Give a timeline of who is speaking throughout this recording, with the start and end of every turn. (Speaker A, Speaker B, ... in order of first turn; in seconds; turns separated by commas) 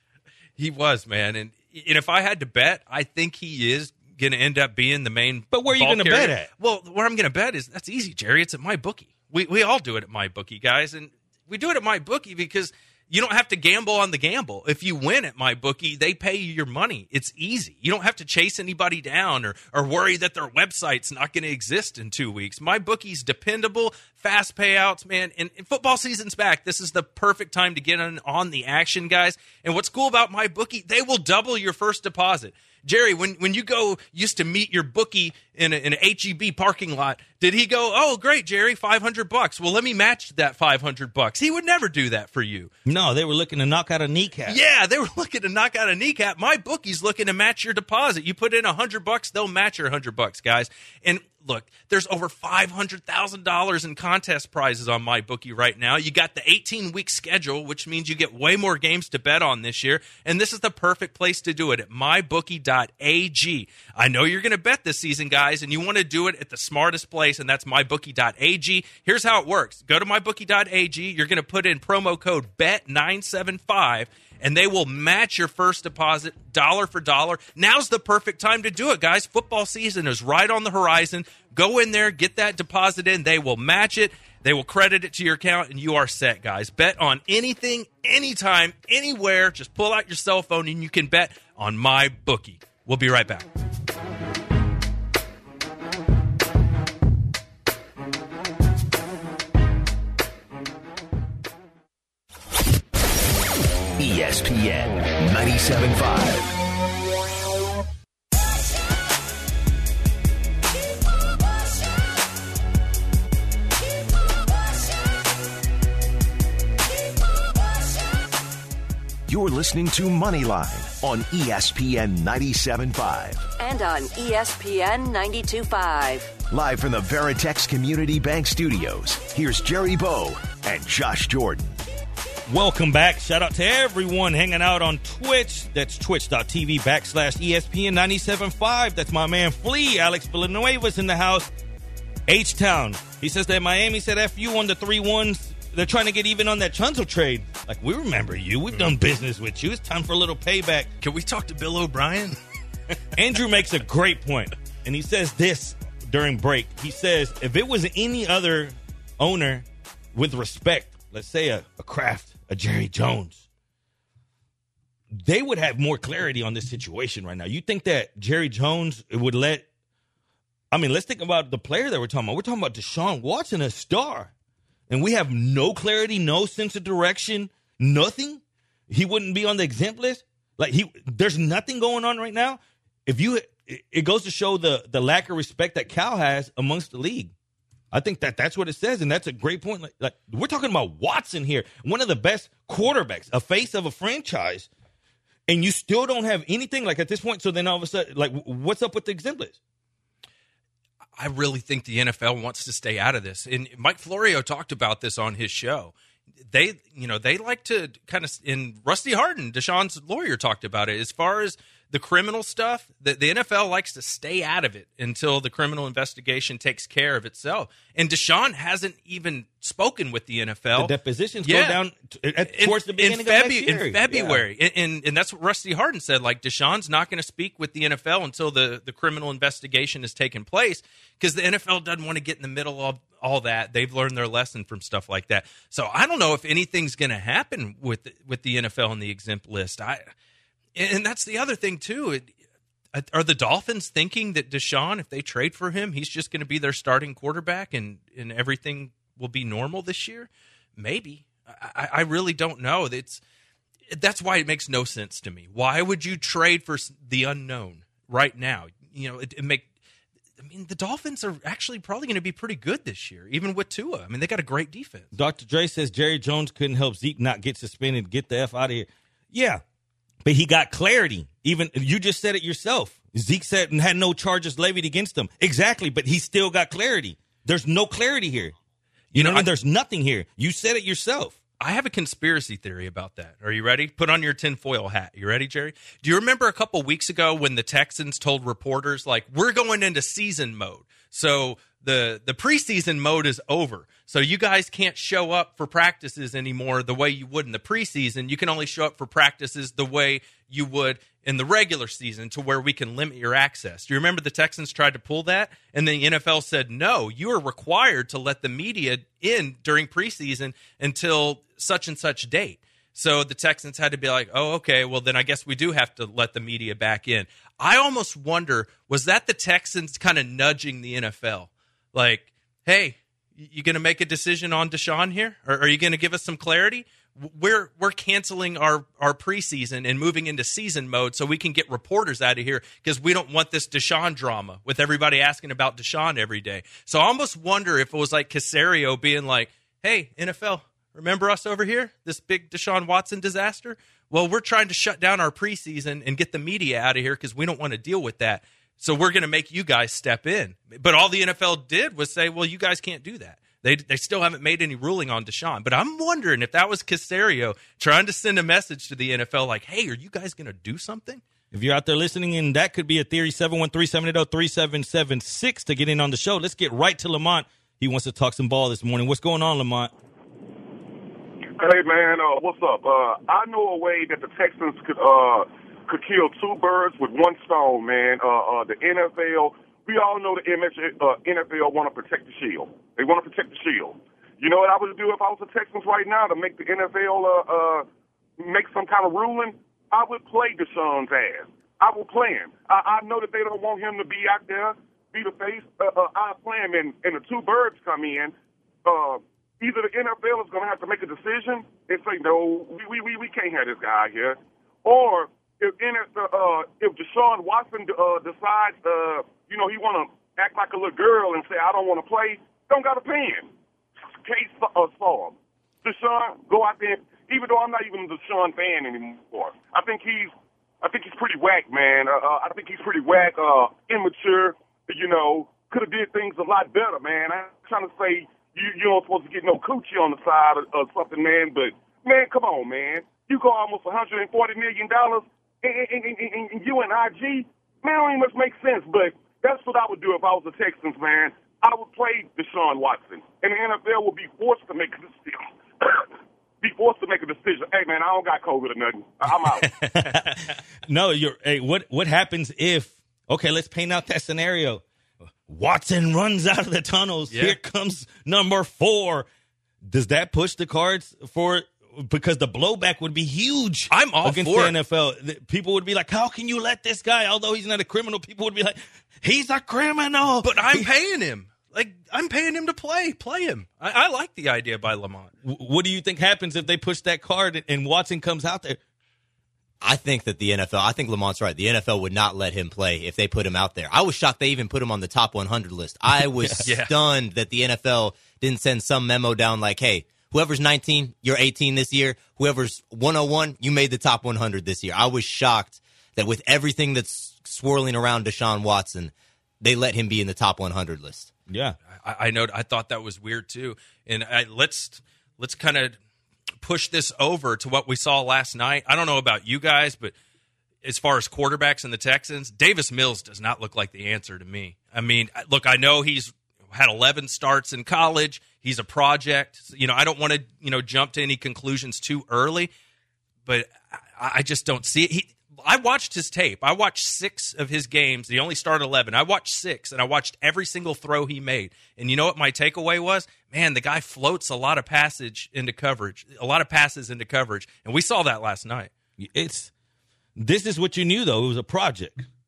Speaker A: 0.6-42.7, Speaker B: 5.5-6.5, Speaker B: 42.9-44.6, Speaker A: 44.5-93.5, Speaker C: 104.0-106.6, Speaker C: 119.3-123.5, Speaker D: 123.6-126.3, Speaker C: 126.5-131.8, Speaker B: 132.5-141.5, Speaker B: 142.3-150.9, Speaker A: 151.0-152.4, Speaker B: 153.2-163.4, Speaker B: 165.1-169.7, Speaker B: 170.7-174.3, Speaker B: 174.9-187.3, Speaker B: 187.9-194.7, Speaker B: 195.5-199.6, Speaker A: 201.2-205.9, Speaker A: 206.5-221.8, Speaker B: 220.8-224.4, Speaker A: 222.4-240.1, Speaker A: 240.8-242.3, Speaker A: 242.9-253.2, Speaker A: 253.9-259.7, Speaker A: 260.4-265.1, Speaker B: 265.1-269.6, Speaker B: 270.2-278.6, Speaker B: 279.1-281.4, Speaker A: 279.1-279.5, Speaker A: 281.6-361.2, Speaker B: 361.5-369.9, Speaker E: 371.6-387.9, Speaker E: 388.4-398.3, Speaker E: 398.9-413.5, Speaker E: 414.1-446.1, Speaker E: 446.6-449.7, Speaker B: 449.6-454.8, Speaker B: 455.5-459.3, Speaker A: 457.3-457.6, Speaker B: 459.8-470.9, Speaker A: 463.9-464.8, Speaker A: 470.4-475.3, Speaker B: 475.4-478.8, Speaker F: 479.8-501.3, Speaker B: 486.1-486.7, Speaker A: 486.6-486.9, Speaker B: 501.5-501.8, Speaker A: 501.9-506.0, Speaker A: 506.6-510.1, Speaker A: 510.8-522.7, Speaker A: 523.5-538.9, Speaker B: 539.2-539.7, Speaker B: 540.4-542.3